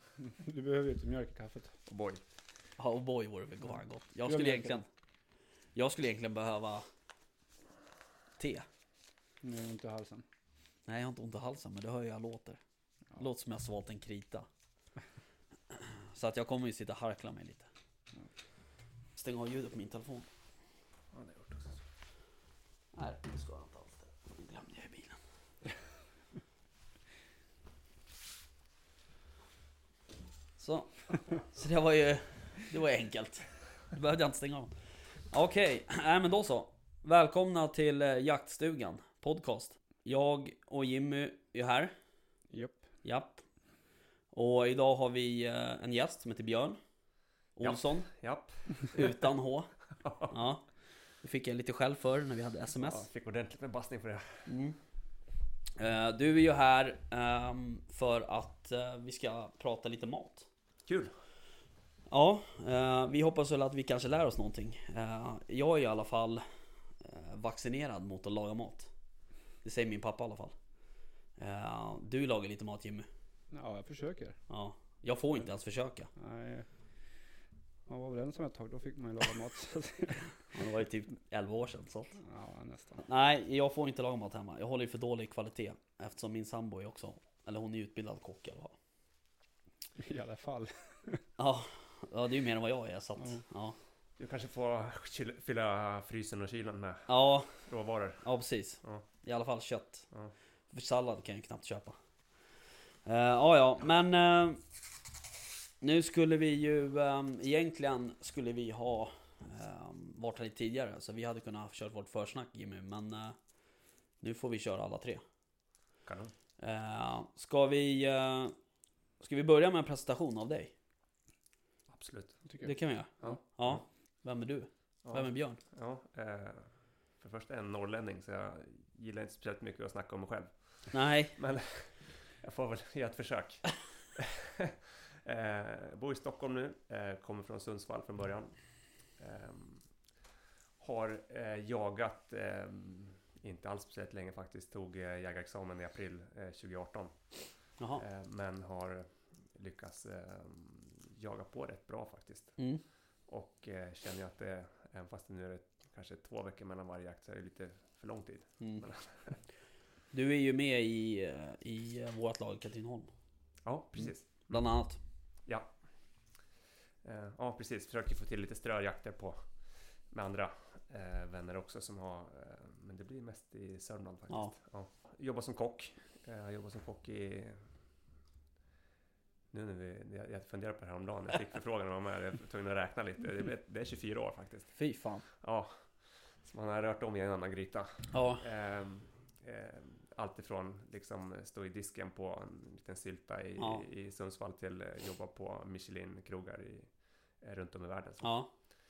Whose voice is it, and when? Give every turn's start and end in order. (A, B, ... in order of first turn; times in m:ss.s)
0:00.2-0:01.8 A
0:01.9-0:02.2 B
0:02.8-0:04.9 C
0:04.2-0:04.8 A
0:05.7-0:06.8 C
0:08.4-0:08.6 C
0:09.4-0:10.2 A
0:10.9-0:12.6 C
0:13.2-0:14.5 C
0:15.7-0:17.7 C
0:19.2-0:20.3 C
0:21.1-0:21.8 B
0:22.9-0:25.2 C
0:30.6-0:34.7 C
0:35.3-0:41.9 C
0:42.5-0:42.8 A
0:43.0-0:43.4 C
0:44.3-0:46.8 C
0:47.6-0:48.1 C
0:47.6-0:49.1 B
0:48.9-0:49.7 C
0:50.0-0:50.4 B
0:50.3-0:50.6 C
0:51.2-0:53.0 C
0:52.8-0:54.5 B
0:54.5-0:54.8 C
0:55.8-1:00.5 C
1:00.8-1:01.1 B
1:02.1-1:06.4 C
1:07.0-1:08.9 C
1:09.6-1:10.5 C
1:11.4-1:13.1 C
1:13.5-1:14.4 A
1:14.5-1:16.1 C
1:16.2-1:16.7 A
1:17.9-1:20.4 A
1:20.5-1:22.2 C
1:22.2-1:23.0 A
1:23.0-1:28.7 C
1:30.0-1:31.2 A
1:31.4-1:33.8 C
1:34.2-1:38.2 B
1:37.1-1:37.6 C
1:38.2-1:40.1 C
1:40.7-1:42.0 C
1:43.0-1:44.6 C
1:45.8-1:53.4 C
1:54.2-1:55.2 C
1:56.0-1:56.3 B
1:56.6-1:58.5 C
1:59.2-2:00.7 C
2:01.9-2:02.4 B
2:02.4-2:03.3 A
2:02.6-2:05.6 C
2:03.2-2:03.8 B
2:05.0-2:18.6 B
2:10.9-2:11.4 C
2:19.2-2:19.8 B
2:20.8-2:27.2 B
2:28.0-2:32.6 B
2:32.6-2:32.8 C
2:33.3-2:39.4 B
2:40.1-2:43.1 C
2:43.6-2:44.6 B
2:44.5-2:45.0 C
2:47.0-2:49.4 B
2:50.1-2:57.6 B
2:59.5-3:04.7 B
3:04.7-3:05.2 C
3:05.3-3:05.8 B
3:06.4-3:18.4 B
3:08.1-3:08.4 C
3:13.6-3:13.8 C
3:18.2-3:18.5 C